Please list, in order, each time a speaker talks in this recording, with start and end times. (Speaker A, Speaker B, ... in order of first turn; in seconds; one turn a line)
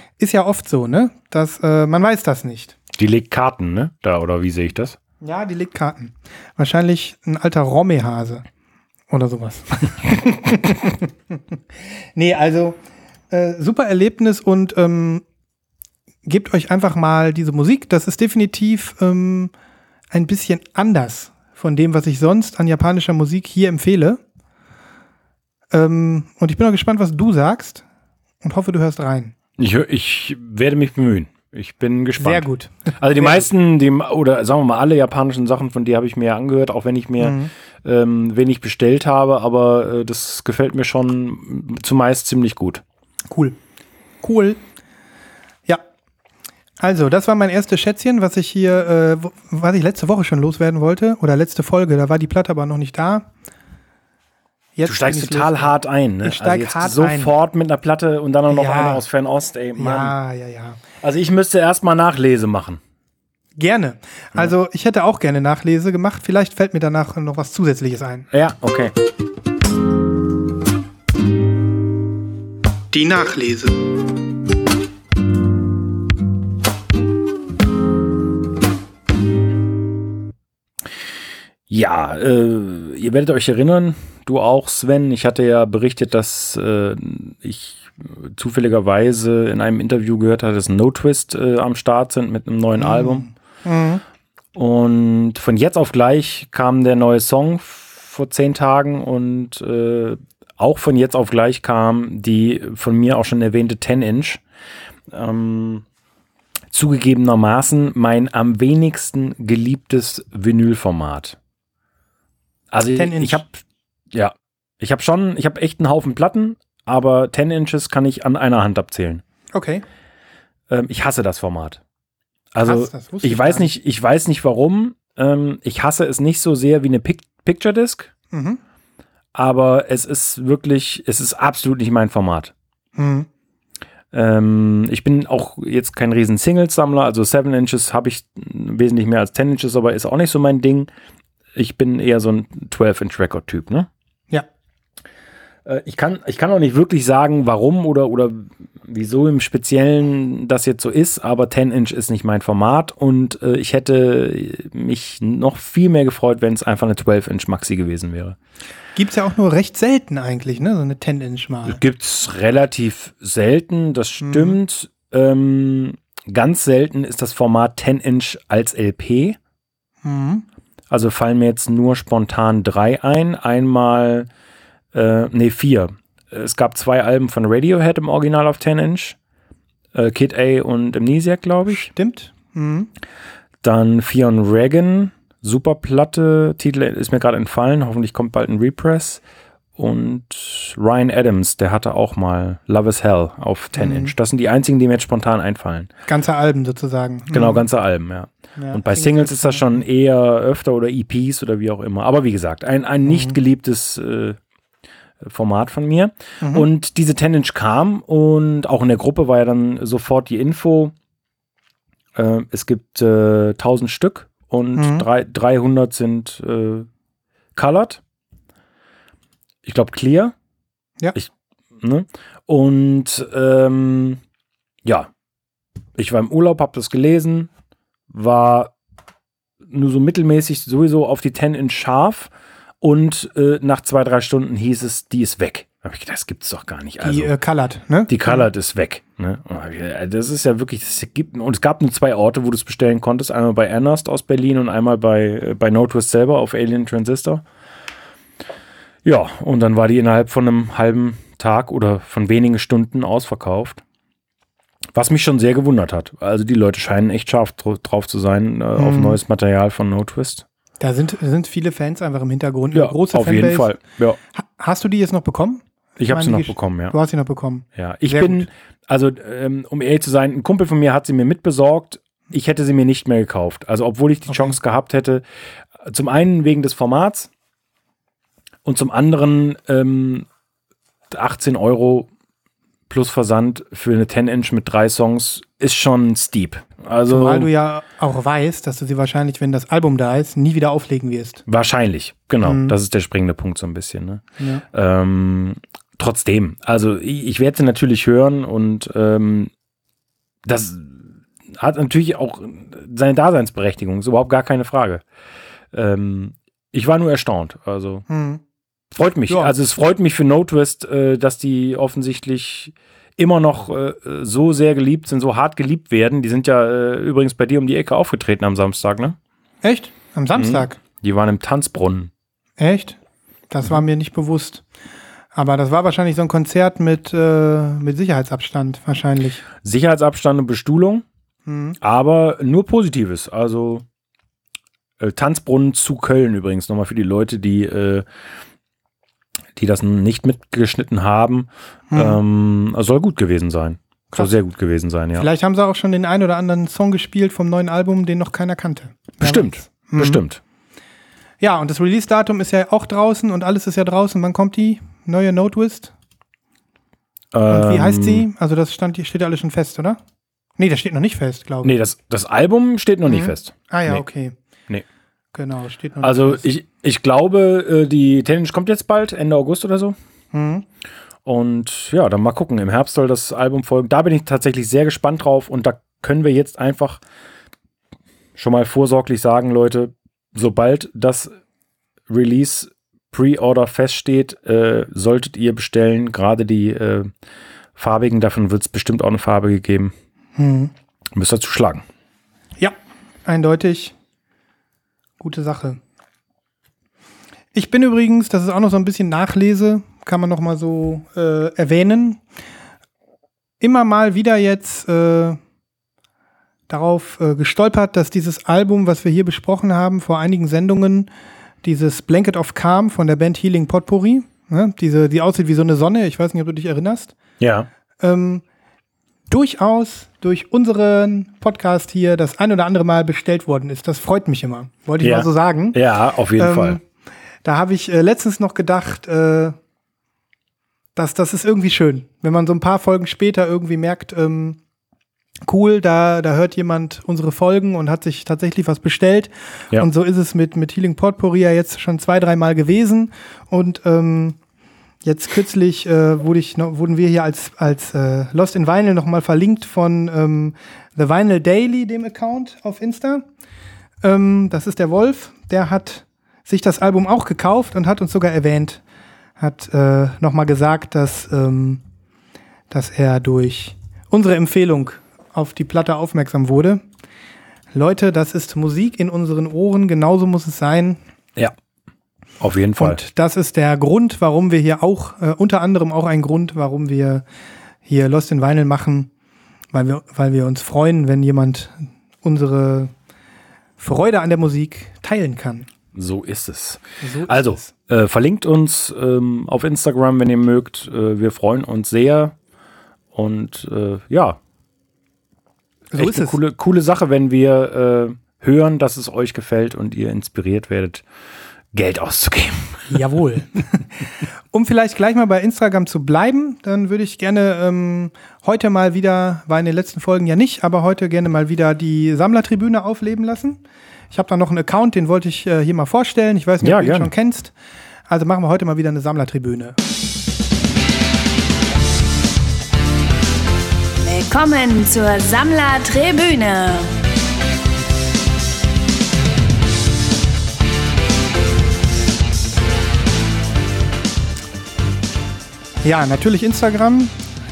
Speaker A: 0.2-2.8
Speaker B: 2.9-5.0
Speaker A: 5.2-8.4
Speaker A: 9.1-11.1
Speaker A: 12.2-12.8
Speaker A: 13.3-15.2
Speaker A: 16.2-19.5
Speaker A: 20.1-24.2
Speaker A: 25.7-27.8
Speaker A: 28.4-29.3
Speaker B: 29.6-32.5
Speaker A: 32.2-33.4
Speaker B: 33.0-42.8
Speaker A: 37.2-37.5
Speaker A: 43.3-43.6
Speaker A: 44.2-44.6
Speaker A: 46.8-53.3
Speaker A: 54.8-57.3
Speaker B: 54.8-60.1
Speaker A: 58.5-59.0
Speaker A: 59.8-60.8
Speaker B: 61.0-62.8
Speaker A: 63.6-68.3
Speaker B: 68.3-68.9
Speaker A: 72.9-73.8
Speaker B: 81.7-93.3
Speaker A: 92.8-94.0
Speaker B: 94.5-104.4
Speaker B: 105.1-105.8
Speaker B: 106.7-111.4
Speaker B: 112.7-119.2
Speaker A: 113.0-113.4
Speaker A: 119.5-119.8
Speaker B: 120.7-121.8
Speaker B: 122.5-128.1
Speaker A: 122.6-123.7
Speaker A: 128.3-128.6
Speaker B: 129.3-132.5
Speaker A: 133.0-133.3
Speaker B: 134.1-140.9
Speaker B: 141.5-143.9
Speaker B: 145.7-158.3
Speaker A: 158.9-161.8
Speaker B: 161.7-169.4
Speaker A: 164.2-164.6
Speaker A: 170.0-170.4
Speaker B: 170.9-174.3
Speaker B: 174.9-179.2
Speaker B: 179.9-181.9
Speaker A: 181.7-182.9
Speaker B: 183.6-189.2
Speaker B: 189.8-195.9
Speaker A: 193.8-194.1
Speaker A: 196.1-197.7
Speaker B: 197.3-204.4
Speaker A: 198.6-199.8
Speaker A: 203.0-203.3
Speaker B: 205.2-210.9
Speaker A: 206.4-206.7
Speaker B: 212.2-216.9
Speaker A: 214.8-215.0
Speaker B: 217.5-218.0
Speaker B: 219.6-220.3
Speaker B: 221.1-224.2
Speaker B: 224.8-225.1
Speaker B: 225.9-227.5
Speaker B: 228.1-228.7
Speaker B: 229.7-237.3
Speaker A: 237.0-238.4
Speaker B: 238.1-247.4
Speaker B: 249.0-253.8
Speaker B: 254.9-260.4
Speaker A: 258.8-259.2
Speaker A: 260.8-263.7
Speaker B: 262.7-264.2
Speaker A: 264.3-268.5
Speaker B: 266.0-266.9
Speaker B: 267.8-275.2
Speaker A: 274.3-274.6
Speaker B: 275.8-277.3
Speaker B: 278.6-280.3
Speaker B: 281.1-282.1
Speaker B: 282.9-287.5
Speaker A: 287.1-291.4
Speaker B: 291.5-299.5
Speaker A: 292.4-292.7
Speaker B: 300.4-305.0
Speaker B: 305.7-308.1
Speaker A: 308.1-308.4
Speaker B: 308.9-319.2
Speaker A: 309.3-309.5
Speaker A: 319.6-320.8
Speaker B: 320.3-322.1
Speaker A: 322.6-323.0
Speaker A: 323.5-324.6
Speaker A: 325.3-329.4
Speaker B: 329.6-331.0
Speaker A: 331.5-331.8
Speaker B: 331.8-333.8
Speaker B: 335.0-338.1
Speaker B: 339.6-345.2
Speaker A: 341.9-342.2
Speaker A: 345.1-350.2
Speaker B: 349.2-350.4
Speaker A: 351.4-355.9
Speaker B: 357.3-358.2
Speaker A: 357.5-360.0
Speaker A: 360.6-361.8
Speaker B: 361.6-364.0
Speaker A: 363.1-364.3
Speaker A: 365.3-366.4
Speaker B: 366.0-370.0
Speaker A: 370.3-370.6
Speaker B: 371.2-377.0
Speaker B: 378.4-381.3
Speaker B: 382.1-387.1
Speaker B: 387.8-389.9
Speaker A: 390.4-390.7
Speaker B: 391.1-391.8
Speaker A: 392.6-393.9
Speaker A: 395.2-395.8
Speaker A: 397.5-402.2
Speaker A: 403.6-405.4
Speaker A: 406.7-411.1
Speaker A: 411.6-417.1
Speaker B: 417.4-417.7
Speaker A: 418.0-418.4
Speaker A: 419.3-425.8
Speaker B: 425.0-426.8
Speaker A: 426.4-426.8
Speaker A: 427.4-429.6
Speaker A: 431.0-434.6
Speaker A: 435.5-444.4
Speaker A: 445.0-453.2
Speaker A: 454.0-458.8
Speaker A: 459.4-461.8
Speaker A: 462.7-466.8
Speaker A: 467.7-471.0
Speaker B: 472.4-473.0
Speaker A: 472.8-477.2
Speaker A: 477.9-479.1
Speaker A: 479.7-482.9
Speaker A: 483.8-485.7
Speaker B: 485.9-492.4
Speaker A: 487.0-487.7
Speaker B: 493.1-494.4
Speaker A: 495.9-496.4
Speaker B: 496.0-501.0
Speaker B: 501.7-503.0
Speaker A: 502.9-503.9
Speaker A: 504.5-517.5
Speaker B: 516.6-517.1
Speaker A: 518.1-519.8
Speaker C: 524.0-526.9
Speaker A: 535.8-537.1